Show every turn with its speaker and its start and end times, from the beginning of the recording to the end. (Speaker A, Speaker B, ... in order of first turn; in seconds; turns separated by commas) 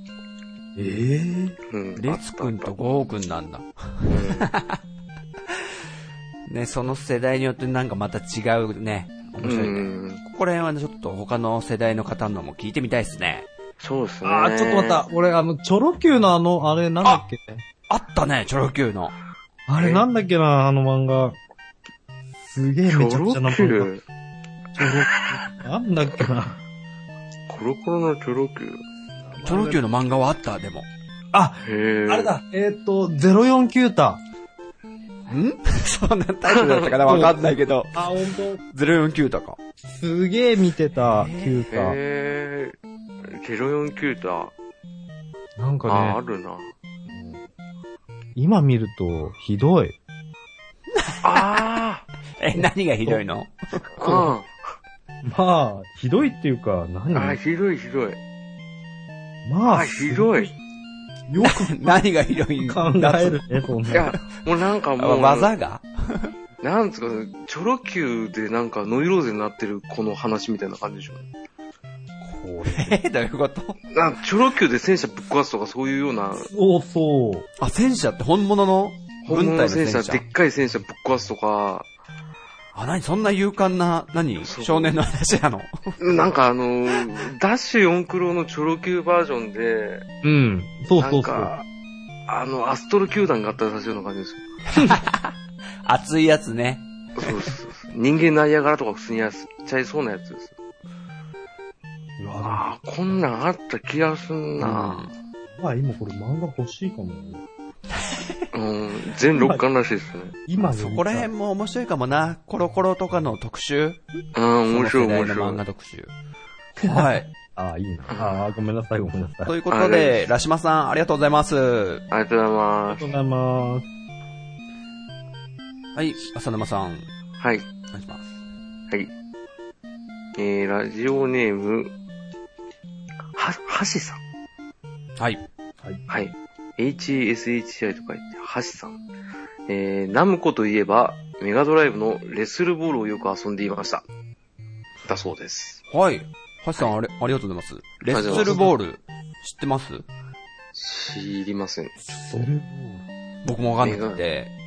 Speaker A: 0.8-1.6, Speaker B: 1.7-2.7, Speaker C: 2.0-4.8, Speaker B: 4.1-4.5, Speaker C: 6.5-13.5, Speaker B: 9.4-10.2, Speaker B: 13.8-15.0, Speaker A: 14.2-17.6, Speaker C: 17.9-19.1, Speaker A: 19.7-21.4, Speaker B: 19.8-20.1, Speaker A: 22.4-23.9, Speaker B: 22.9-24.0, Speaker A: 24.8-26.6, Speaker B: 24.8-25.4, Speaker B: 27.5-28.8, Speaker A: 29.2-29.8, Speaker C: 29.4-30.9, Speaker A: 31.3-34.2, Speaker B: 31.6-32.3, Speaker C: 35.3-38.0, Speaker B: 36.5-37.2, Speaker A: 37.1-37.4, Speaker A: 37.9-38.6, Speaker C: 38.7-39.6, Speaker A: 39.9-42.0, Speaker C: 41.0-41.7, Speaker B: 41.7-42.7, Speaker B: 43.3-44.5, Speaker A: 45.6-46.2, Speaker B: 45.9-46.7, Speaker A: 47.1-47.4, Speaker A: 48.4-50.0, Speaker C: 51.0-51.6, Speaker B: 51.2-52.0, Speaker C: 52.4-53.8, Speaker A: 52.6-53.2, Speaker A: 54.0-54.3, Speaker B: 54.0-54.5, Speaker A: 55.2-57.4, Speaker B: 57.1-58.2, Speaker A: 59.5-60.5, Speaker B: 59.6-60.5, Speaker A: 61.3-62.0, Speaker C: 61.4-64.2, Speaker A: 62.6-64.1, Speaker B: 63.9-65.5, Speaker C: 65.0-66.3, Speaker B: 66.6-71.3, Speaker A: 72.3-73.0, Speaker C: 72.6-73.8, Speaker B: 73.9-76.5, Speaker A: 76.4-77.5, Speaker C: 77.6-80.2, Speaker B: 79.2-81.9, Speaker C: 82.8-86.0, Speaker B: 84.4-85.0, Speaker B: 86.0-90.0, Speaker A: 90.2-91.5, Speaker B: 91.0-91.6, Speaker B: 92.3-94.4, Speaker C: 94.7-97.5, Speaker B: 97.2-100.5, Speaker A: 102.2-102.7, Speaker B: 102.4-105.1, Speaker C: 104.6-105.1, Speaker A: 105.6-107.4, Speaker C: 108.0-108.5, Speaker B: 108.5-110.4, Speaker A: 109.3-109.6, Speaker A: 110.5-111.3, Speaker C: 110.6-114.0, Speaker B: 114.3-115.6, Speaker C: 114.7-116.1, Speaker C: 116.8-117.3, Speaker A: 116.8-119.5, Speaker B: 118.1-118.5, Speaker C: 119.4-122.1, Speaker B: 119.7-120.2, Speaker B: 122.1-123.1, Speaker A: 122.9-123.9, Speaker C: 126.0-127.1, Speaker B: 127.4-127.7, Speaker C: 127.9-128.3, Speaker B: 130.4-131.9, Speaker B: 133.3-134.2, Speaker C: 135.2-135.4, Speaker B: 136.1-139.0, Speaker B: 139.7-144.0, Speaker B: 145.1-145.8, Speaker C: 145.9-150.1, Speaker B: 148.1-148.7, Speaker B: 150.7-152.5, Speaker A: 152.1-153.0, Speaker C: 153.4-154.5, Speaker B: 153.8-154.2